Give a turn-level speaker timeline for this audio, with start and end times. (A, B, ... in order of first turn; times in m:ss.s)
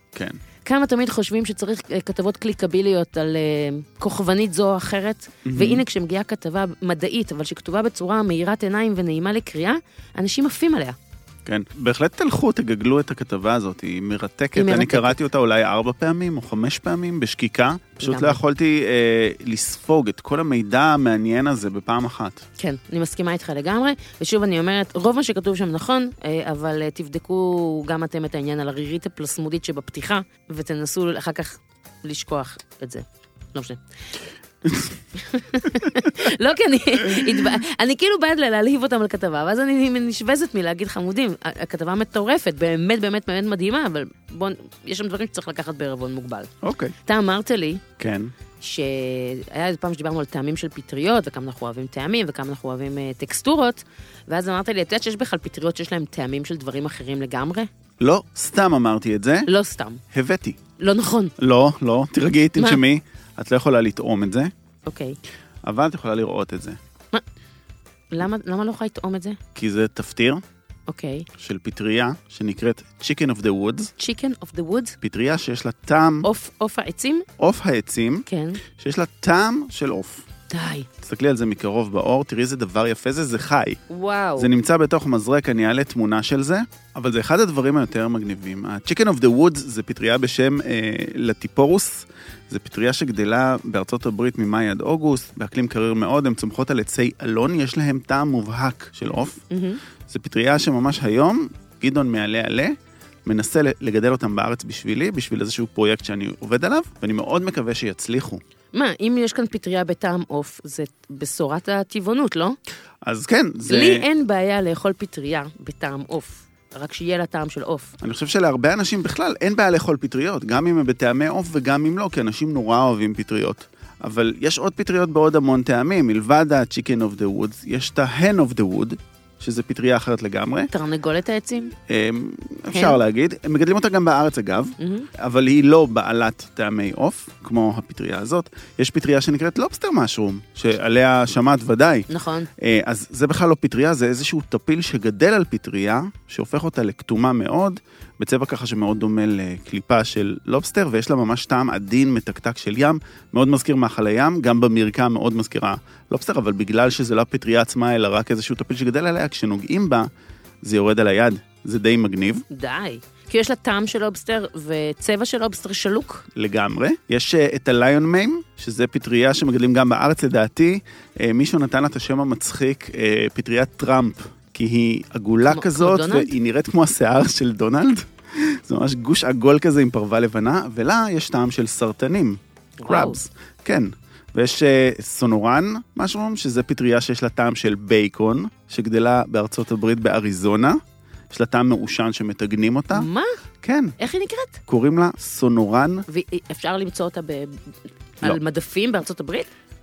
0:00.1-0:00.4 A
0:00.6-0:11.0 B
0:05.4-0:05.8 A
0:11.5-0:22.4 A
0:14.6-0:15.2 B
0:18.0-0:18.4 B
0:22.6-0:33.8 B
0:34.6-0:34.9 A
0:35.2-0:46.5 B
0:46.6-0:47.0 A
0:47.0-0:47.8 B
0:48.0-0:48.3 A
0:48.6-0:57.7 B
0:58.0-0:59.5 A
0:59.5-1:00.0 B
1:00.1-1:00.6 A
1:00.8-1:01.4 B
1:01.4-1:04.5 A
1:02.6-1:02.8 B
1:04.9-1:05.2 B
1:05.6-1:06.8 A
1:08.1-1:09.4 B
1:09.6-1:10.4 A
1:10.9-1:11.3 B
1:11.4-1:13.9 A
1:14.0-1:15.0 B
1:15.0-1:16.3 A
1:16.2-1:17.3 B
1:17.4-1:20.3 A
1:18.3-1:18.6 B
1:20.5-1:20.9 B
1:21.0-1:23.8 A
1:23.9-1:24.5 B
1:24.4-1:39.4 A
1:39.5-1:39.8 B
1:40.1-1:48.4 A
1:48.7-1:52.6 B
1:53.0-1:54.1 A
1:53.7-1:57.9 B
1:58.0-2:10.7 A
2:10.7-2:11.7 B
2:11.9-2:40.1 A
2:12.7-2:13.0 B
2:14.8-2:15.1 B
2:22.1-2:22.5 B
2:40.6-2:42.4 A
2:42.5-2:46.3 B
2:46.4-3:13.1 A
2:55.5-2:56.3 B
3:02.8-3:03.2 B
3:12.9-3:13.3 B
3:13.6-3:14.0 A
3:14.0-3:14.6 B
3:14.7-3:16.0 A
3:16.1-3:17.6 B
3:18.2-3:19.5 B